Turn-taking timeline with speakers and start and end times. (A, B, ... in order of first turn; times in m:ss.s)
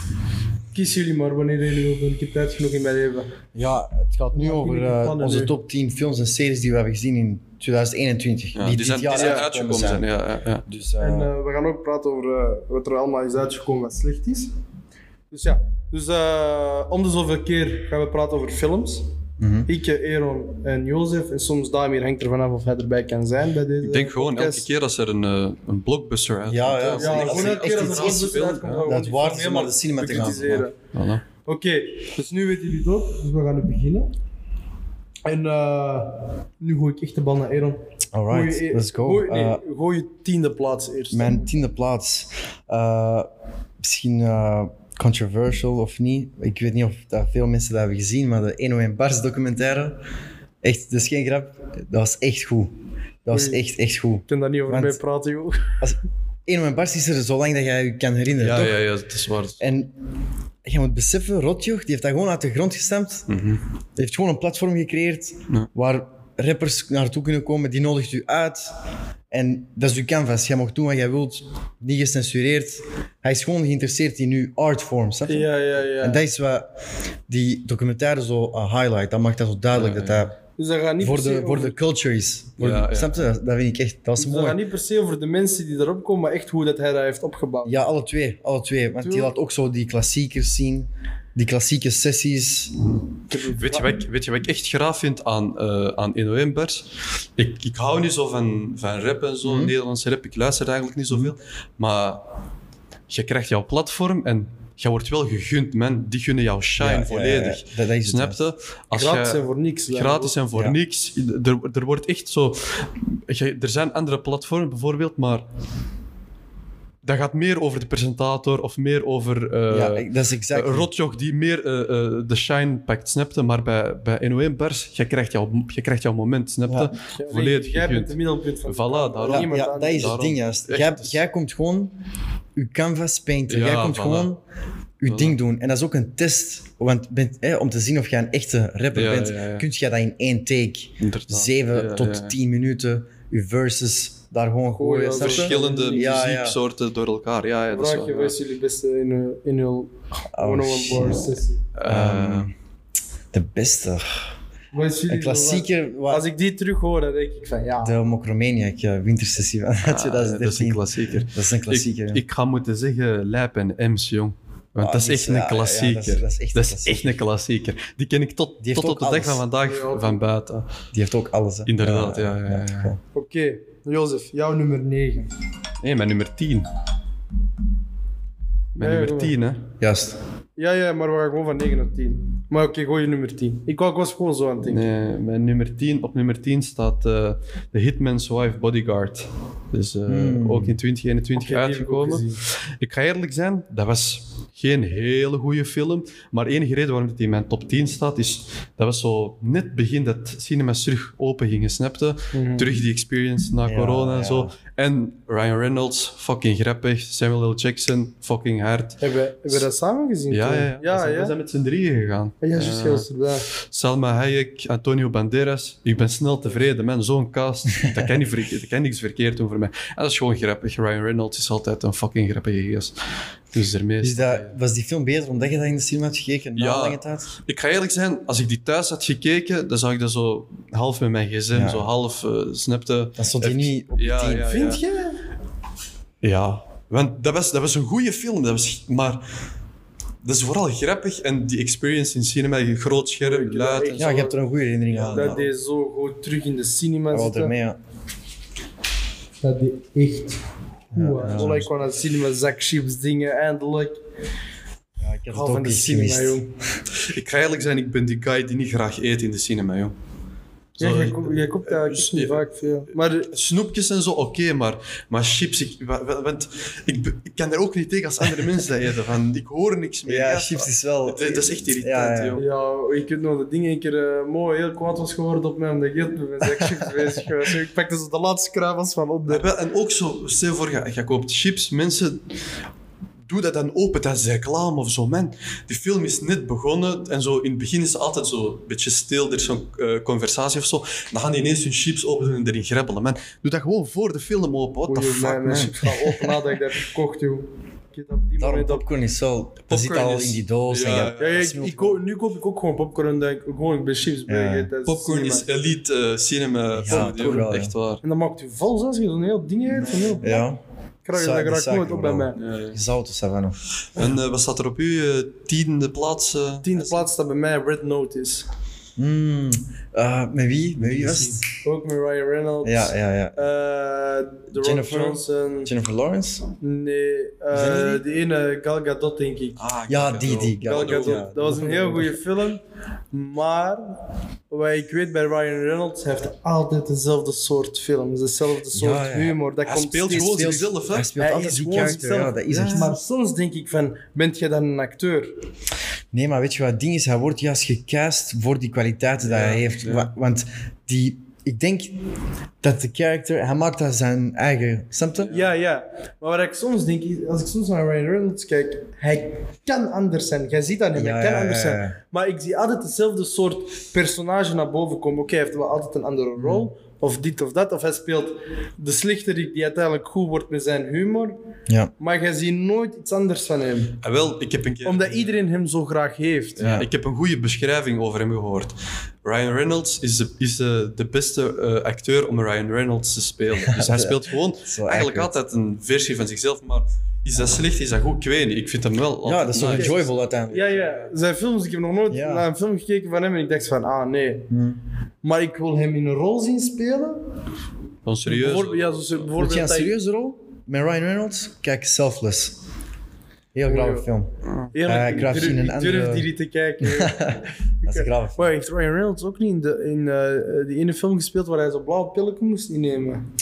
0:00.7-0:03.3 A
0:03.5-0:10.1 B
0:04.3-0:05.5 A
0:08.5-0:10.6 C
0:09.1-0:09.4 A
0:10.6-0:11.3 B
0:11.0-0:14.5 A
0:15.3-0:19.1 A
0:19.4-0:19.7 B
0:19.7-0:24.6 A
0:23.8-0:28.9 C
0:26.5-0:30.7 B
0:26.9-0:30.7 A
0:30.9-0:31.2 C
0:31.4-0:34.1 A
0:35.2-0:41.4 A
0:38.1-0:39.6 B
0:41.1-0:43.3 B
0:43.8-0:50.0 B
0:50.6-0:52.7 B
0:53.2-0:55.0 B
0:53.3-0:53.6 A
0:54.3-0:55.8 A
0:55.8-0:58.8 B
0:58.4-0:59.6 C
0:59.6-0:59.9 B
1:00.6-1:03.3 B
1:03.3-1:03.6 C
1:04.0-1:08.7 B
1:09.3-1:16.7 B
1:15.3-1:16.2 A
1:17.3-1:20.4 B
1:19.7-1:20.3 C
1:20.6-1:21.8 A
1:21.0-1:24.6 B
1:22.6-1:23.2 C
1:24.2-1:27.8 A
1:27.6-1:32.8 B
1:29.0-1:29.3 A
1:33.3-1:33.8 A
1:33.5-1:42.2 C
1:39.4-1:39.7 B
1:43.1-1:55.4 C
1:46.8-1:48.4 B
1:48.9-1:50.3 A
1:57.0-2:11.2 C
1:59.7-2:00.9 B
2:07.0-2:10.1 A
2:09.3-2:11.9 B
2:12.6-2:14.4 B
2:13.5-2:14.3 C
2:15.0-2:26.6 B
2:15.1-2:15.4 C
2:18.9-2:19.6 C
2:21.0-2:22.3 C
2:24.7-2:26.1 A
2:25.1-2:28.4 C
2:27.7-2:31.6 A
2:30.3-2:32.5 B
2:31.7-2:32.5 C
2:33.3-2:34.3 B
2:34.7-2:37.9 A
2:35.1-2:36.2 B
2:37.8-2:42.2 B
2:39.8-2:50.7 C
2:44.8-2:47.2 B
2:48.6-2:49.4 B
2:49.6-2:50.2 A
2:50.9-2:53.0 B
2:51.7-2:52.9 C
2:53.1-2:55.3 A
2:55.8-2:56.7 C
2:58.7-2:59.6 C
2:58.8-2:59.4 A
2:59.8-3:00.2 B
3:00.6-3:04.8 A
3:04.7-3:29.0 C
3:10.1-3:10.8 B
3:11.4-3:12.4 A
3:22.3-3:22.8 A
3:23.6-3:24.5 B
3:29.0-3:31.3 A
3:30.3-3:43.0 C
3:32.4-3:33.4 A
3:43.5-3:44.5 C
3:44.0-3:47.3 B
3:46.6-3:54.8 C
3:51.5-3:51.9 B
3:53.2-3:54.6 B
3:54.4-3:55.2 A
3:56.2-3:59.2 C
4:00.2-4:04.2 C
4:03.2-4:04.4 A
4:04.0-4:05.5 B
4:04.9-4:05.4 C
4:05.1-4:07.5 A
4:07.1-4:07.8 B
4:09.4-4:10.4 A
4:10.9-4:11.7 B
4:10.9-4:14.0 A
4:15.0-4:16.5 B
4:15.3-4:16.5 A
4:17.0-4:19.9 C
4:20.8-4:22.4 C
4:20.8-4:23.3 A
4:23.3-4:32.4 C
4:30.0-4:32.4 B
4:32.4-4:39.5 A
4:39.3-4:42.4 C
4:43.3-4:56.4 C
4:54.9-4:58.8 A
4:58.4-5:02.0 B
4:59.7-5:01.6 C
5:01.2-5:05.5 A
5:04.3-5:04.7 B
5:04.8-5:08.0 C
5:06.7-5:07.7 B
5:06.9-5:07.5 A
5:08.0-5:10.4 A
5:09.8-5:10.6 B
5:11.0-5:12.4 A
5:11.1-5:13.6 B
5:12.4-5:12.8 C
5:13.9-5:17.0 C
5:16.6-5:18.4 A
5:19.0-5:21.4 B
5:20.8-5:21.4 C
5:21.6-5:25.7 A
5:22.6-5:23.4 B
5:24.5-5:26.4 B
5:26.6-5:29.6 A
5:27.5-5:28.0 B
5:29.6-5:31.3 C
5:29.9-5:32.2 B
5:30.6-5:40.6 A
5:38.7-5:39.4 B
5:39.6-5:41.1 C
5:40.1-5:43.0 B
5:41.2-5:45.3 A
5:42.5-5:42.9 C
5:46.1-5:52.0 B
5:49.2-5:50.1 C
5:52.6-5:55.3 B
5:55.2-5:55.5 C
5:55.3-6:11.4 A
6:00.9-6:02.0 B
6:06.4-6:06.6 B
6:12.0-6:14.0 A
6:14.0-6:15.4 C
6:14.8-6:16.6 A
6:16.6-6:31.1 C
6:16.6-6:16.9 B
6:23.7-6:25.3 B
6:29.2-6:30.7 B
6:29.6-6:34.5 A
6:32.1-6:32.4 B
6:34.5-6:34.8 B
6:35.2-6:37.2 A
6:38.0-6:39.3 C
6:38.2-6:39.9 A
6:39.4-6:42.6 B
6:43.5-6:44.3 B
6:43.7-6:44.1 A
6:44.7-6:53.2 A
6:44.8-6:46.3 B
6:46.8-6:48.4 B